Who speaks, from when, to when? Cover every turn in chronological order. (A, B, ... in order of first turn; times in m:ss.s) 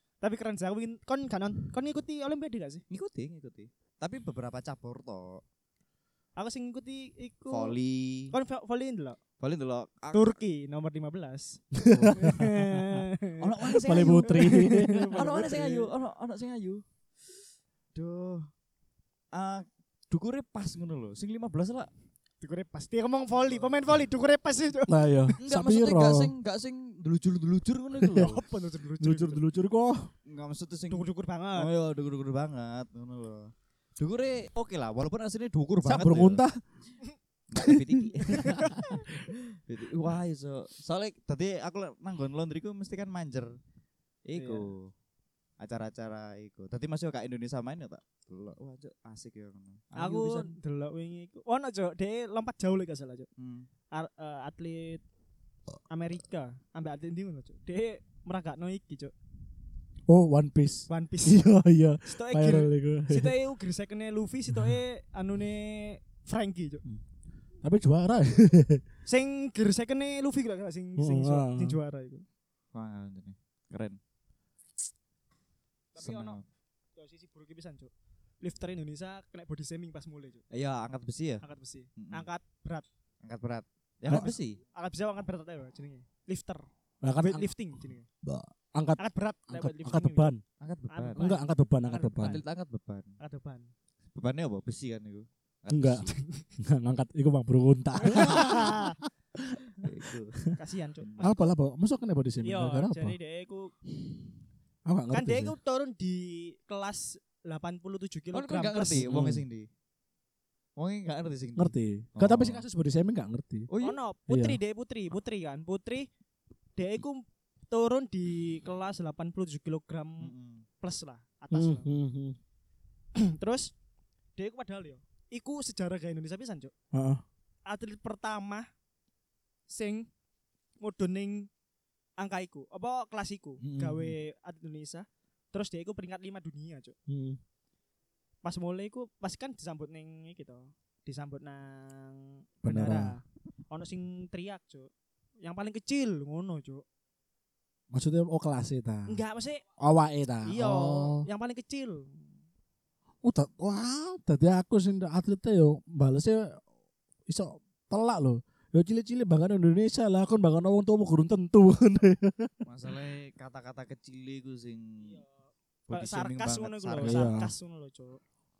0:00.2-0:02.8 A
0:02.9-0:05.4 B
0:06.4-0:07.8 A
0:07.5-0:08.3 B
0:08.3-0:09.2 A
0:09.4-0:10.4 B
0:10.1-0:11.6 A
0:11.7-0:13.0 C
0:11.9-0:12.2 B
0:12.2-0:15.9 A
0:13.4-0:17.4 B
0:13.8-0:15.1 C
0:17.9-0:18.5 B
0:19.3-0:21.9 B
0:22.4-0:25.3 A
0:24.9-0:26.3 C
0:25.4-0:28.4 B
0:28.0-0:28.4 C
0:28.1-0:29.4 A
0:29.0-0:30.1 C
0:30.2-0:31.0 B
0:30.9-0:31.7 A
0:31.5-0:36.4 B
0:35.8-0:36.6 C
0:37.5-0:43.5 B
0:37.6-0:39.3 C
0:44.2-0:44.9 B
0:44.4-0:44.7 A
0:45.6-0:50.6 B
0:50.0-0:53.3 A
0:53.4-0:53.7 B
0:53.9-0:55.0 A
0:55.9-0:59.1 A
1:00.1-1:03.3 C
1:00.9-1:01.4 A
1:02.0-1:06.8 A
1:07.6-1:08.8 C
1:09.0-1:12.2 A
1:11.0-1:11.8 C
1:12.7-1:14.0 B
1:15.9-1:16.4 A
1:16.0-1:16.4 B
1:17.0-1:20.4 A
1:20.5-1:21.4 B
1:21.4-1:22.8 A
1:22.0-1:22.3 B
1:23.2-1:24.6 B
1:24.1-1:24.3 C
1:24.1-1:26.6 A
1:27.0-1:27.5 C
1:27.2-1:28.1 A
1:28.2-1:30.4 C
1:29.0-1:30.3 A
1:30.6-1:31.3 B
1:30.9-1:32.4 A
1:31.2-1:32.4 C
1:32.2-1:33.1 B
1:33.2-1:33.7 A
1:34.1-1:36.2 B
1:35.7-1:38.8 C
1:36.2-1:36.4 A
1:38.0-1:39.0 A
1:38.1-1:38.6 B
1:39.4-1:39.9 C
1:39.8-1:40.4 B
1:40.6-1:41.4 A
1:41.0-1:41.4 B
1:41.2-1:43.2 C
1:42.4-1:43.7 A
1:44.8-1:45.6 C
1:45.1-1:49.1 A
1:48.3-1:49.7 B
1:49.0-1:49.4 C
1:50.8-1:52.6 B
1:51.6-1:53.7 C
1:53.7-1:54.0 B
1:53.8-1:56.1 A
1:54.3-1:54.6 C
1:56.8-2:01.9 A
2:00.2-2:00.6 B
2:01.5-2:02.4 C
2:03.1-2:03.7 A
2:04.4-2:06.7 A
2:06.9-2:07.2 C
2:07.6-2:08.7 A
2:09.7-2:10.1 A
2:10.8-2:11.5 A
2:12.2-2:16.9 A
2:13.6-2:14.2 C
2:17.1-2:17.4 C
2:18.4-2:26.8 A
2:22.6-2:23.1 C
2:27.9-2:29.2 C
2:29.1-2:29.6 A
2:29.8-2:31.3 C
2:30.4-2:32.2 A
2:33.2-2:36.6 C
2:37.3-2:42.6 C
2:42.6-2:45.2 B
2:45.0-2:45.3 A
2:45.9-2:47.4 B
2:45.9-2:48.2 A
2:47.0-2:47.5 C